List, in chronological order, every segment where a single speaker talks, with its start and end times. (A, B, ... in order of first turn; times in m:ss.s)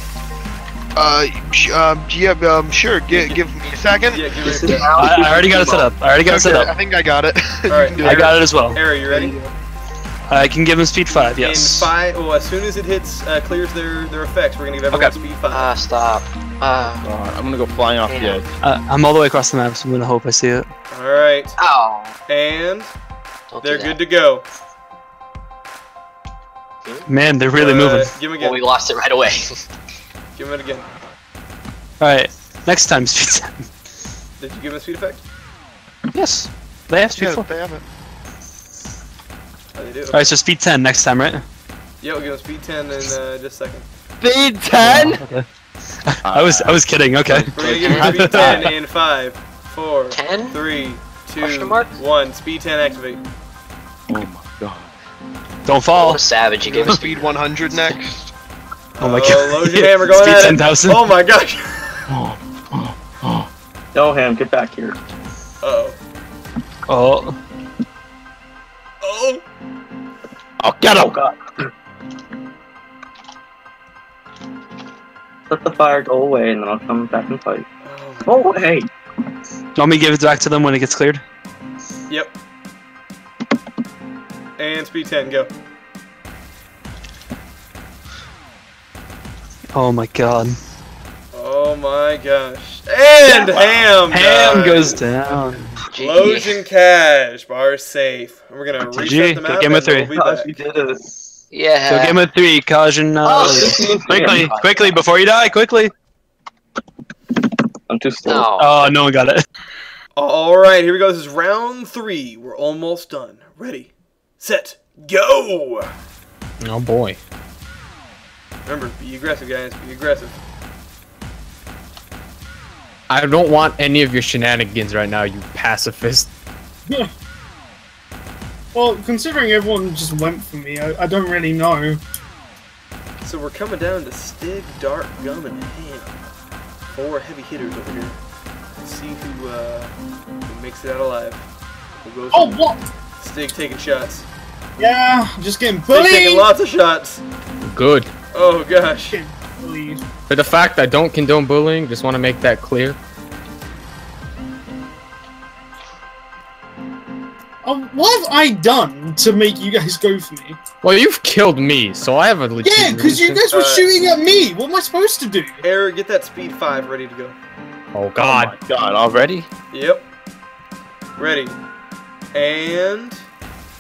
0:01.0-0:04.8 A
0:04.1-0:04.9 B
0:04.6-0:05.9 C
0:05.0-0:06.7 D
0:05.6-0:08.4 A
0:07.7-0:09.5 B
0:08.2-0:08.8 D
0:09.1-0:09.4 A
0:10.3-0:11.9 D
0:11.1-0:15.7 B
0:15.5-0:17.0 E
0:17.0-0:18.6 F
0:18.1-0:18.4 E
0:18.6-0:20.7 D
0:20.9-0:21.6 B
0:21.6-0:22.2 E
0:22.3-0:22.9 B
0:23.5-0:24.0 E
0:23.6-0:24.4 B
0:27.1-0:28.1 D
0:27.6-0:28.7 B
0:28.3-0:29.5 E
0:30.4-0:30.9 B
0:32.0-0:33.7 D
0:34.4-0:35.2 B
0:36.1-0:37.5 D
0:37.1-0:37.8 A
0:39.8-0:40.3 B
0:40.1-0:41.4 D
0:42.0-0:43.9 B
0:44.2-0:45.2 F
0:44.8-0:45.5 D
0:46.0-0:47.5 D
0:46.3-0:48.7 F
0:47.6-0:53.2 B
0:47.7-0:48.2 E
0:48.2-0:48.7 D
0:50.1-0:50.6 E
0:51.4-0:51.9 E
0:54.1-0:54.9 F
0:55.6-0:56.2 D
0:55.9-0:57.4 E
0:56.6-0:58.3 A
0:59.0-1:02.1 B
0:59.0-1:01.0 D
1:02.1-1:03.5 F
1:04.0-1:05.0 C
1:05.6-1:06.0 B
1:06.9-1:07.4 D
1:09.0-1:09.4 B
1:10.6-1:11.2 F
1:11.0-1:11.7 C
1:15.5-1:17.7 C
1:17.8-1:18.5 B
1:18.2-1:18.9 C
1:19.8-1:21.2 D
1:22.1-1:22.4 B
1:24.6-1:25.5 B
1:29.7-1:30.6 D
1:31.3-1:35.0 B
1:34.1-1:35.8 D
1:35.9-1:36.6 E
1:36.0-1:40.6 B
1:38.8-1:40.1 D
1:40.1-1:41.0 C
1:41.5-1:42.2 E
1:41.9-1:45.9 D
1:43.2-1:44.6 C
1:44.3-1:45.0 E
1:47.9-1:48.5 C
1:48.2-1:48.9 E
1:48.6-1:49.4 D
1:50.2-1:55.9 B
1:56.6-1:57.2 G
1:58.7-2:00.4 B
2:03.1-2:06.3 G
2:08.7-2:12.0 H
2:13.2-2:16.3 B
2:16.9-2:18.2 B
2:18.8-2:19.9 B
2:20.5-2:24.3 B
2:22.3-2:22.8 H
2:24.8-2:26.5 H
2:25.9-2:27.2 B
2:27.6-2:28.1 G
2:28.3-2:29.2 B
2:29.1-2:30.1 H
2:30.3-2:33.0 G
2:37.6-2:40.6 H
2:40.8-2:43.5 G
2:42.6-2:45.6 H
2:43.5-2:43.9 B
2:45.6-2:47.4 B
2:47.9-2:48.6 G
2:48.2-2:49.5 F
2:49.7-2:50.1 B
2:51.2-2:51.6 B
2:52.3-2:53.2 B